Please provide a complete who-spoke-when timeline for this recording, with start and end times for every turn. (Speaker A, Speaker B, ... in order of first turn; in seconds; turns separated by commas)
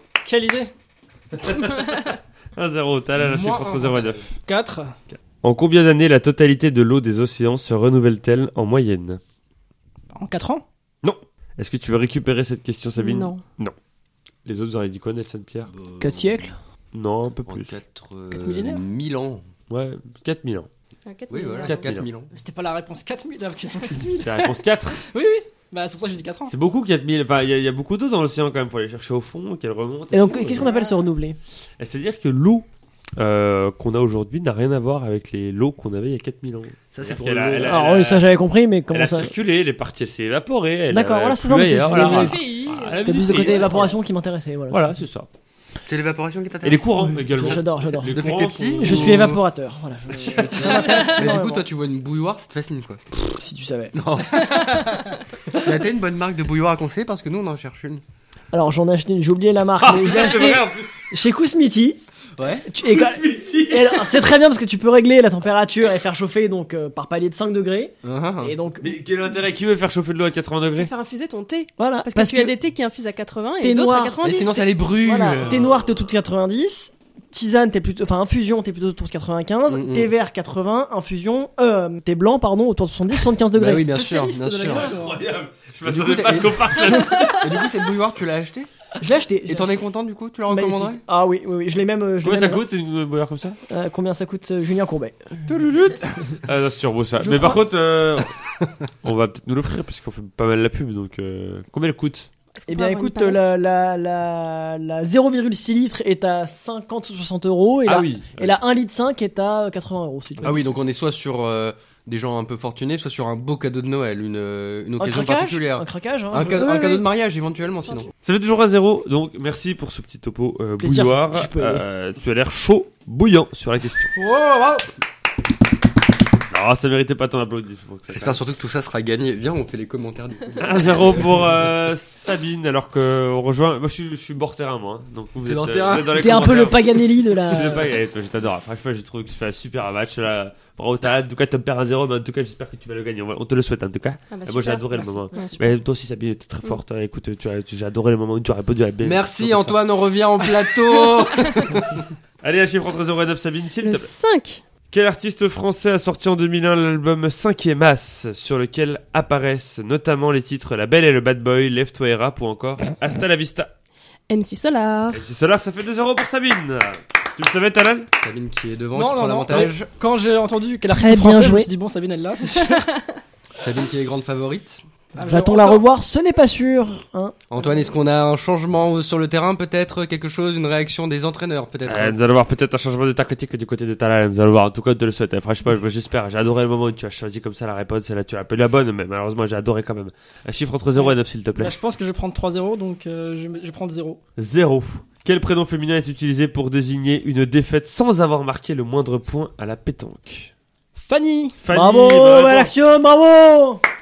Speaker A: 0.2-0.7, Speaker B: 1.4-4.4, Speaker C: 3.2-4.3, Speaker A: 4.5-5.0, Speaker B: 5.1-9.2, Speaker A: 10.1-10.6, Speaker B: 11.0-13.7, Speaker D: 13.0-13.4, Speaker B: 14.4-15.7, Speaker C: 15.7-16.4, Speaker E: 16.0-16.6, Speaker B: 16.9-17.8, Speaker C: 17.5-19.4, Speaker A: 18.3-18.8, Speaker B: 19.7-20.7, Speaker D: 21.1-21.9, Speaker C: 21.3-22.3, Speaker B: 21.6-22.1, Speaker A: 22.3-26.5, Speaker B: 24.2-25.0, Speaker B: 26.5-30.7, Speaker E: 30.1-31.4, Speaker B: 31.8-32.7, Speaker B: 33.2-38.3, Speaker C: 36.9-37.8, Speaker E: 37.6-39.3, Speaker B: 38.9-44.0, Speaker E: 40.9-42.4, Speaker D: 41.9-43.8, Speaker E: 43.0-44.9, Speaker B: 44.7-45.3, Speaker C: 45.9-49.4, Speaker B: 46.6-49.4, Speaker E: 47.3-48.3, Speaker E: 48.8-51.7, Speaker C: 50.3-53.0, Speaker B: 50.4-51.0, Speaker E: 53.3-54.0, Speaker C: 53.9-54.9, Speaker D: 54.5-55.0, Speaker A: 54.7-55.0, Speaker C: 55.5-58.0, Speaker E: 58.5-62.0, Speaker B: 59.8-61.0, Speaker C: 62.4-62.7, Speaker E: 62.7-68.8, Speaker B: 62.9-64.0, Speaker C: 68.0-68.6, Speaker B: 68.8-70.9, Speaker D: 70.8-74.7, Speaker E: 71.8-72.5, Speaker E: 73.6-74.2, Speaker C: 74.2-75.7, Speaker E: 75.0-83.9, Speaker B: 75.4-75.7, Speaker C: 79.7-80.1, Speaker C: 83.5-84.9, Speaker A: 83.8-85.2, Speaker B: 84.7-87.4, Speaker C: 85.8-88.7, Speaker E: 89.0-89.7, Speaker C: 89.5-91.0, Speaker E: 90.5-92.6, Speaker B: 92.2-93.6, Speaker E: 93.7-95.4, Speaker B: 95.5-98.4, Speaker E: 97.2-97.6, Speaker B: 99.0-102.3, Speaker D: 102.5-103.5, Speaker E: 102.7-110.7, Speaker B: 107.8-108.6, Speaker C: 110.4-118.1, Speaker E: 115.0-117.0, Speaker D: 116.6-117.0, Speaker B: 118.2-124.1, Speaker E: 120.8-121.8, Speaker A: 124.2-124.9, Speaker B: 126.5-128.4, Speaker C: 128.1-131.4, Speaker B: 130.6-149.8, Speaker C: 135.4-136.8, Speaker E: 136.1-137.9, Speaker D: 144.3-145.8, Speaker C: 149.0-152.1, Speaker D: 151.1-151.6, Speaker B: 152.4-154.1, Speaker D: 153.8-154.6, Speaker B: 154.9-163.7, Speaker D: 164.3-165.2, Speaker B: 165.1-168.1, Speaker C: 168.2-169.9, Speaker A: 168.9-172.9, Speaker E: 170.9-171.7, Speaker C: 173.6-174.8, Speaker A: 175.2-175.9, Speaker E: 175.2-177.4, Speaker C: 177.5-182.2, Speaker B: 181.9-191.8, Speaker A: 190.9-194.2, Speaker B: 194.4-200.5, Speaker A: 201.0-201.6, Speaker B: 201.6-202.7, Speaker E: 201.7-203.8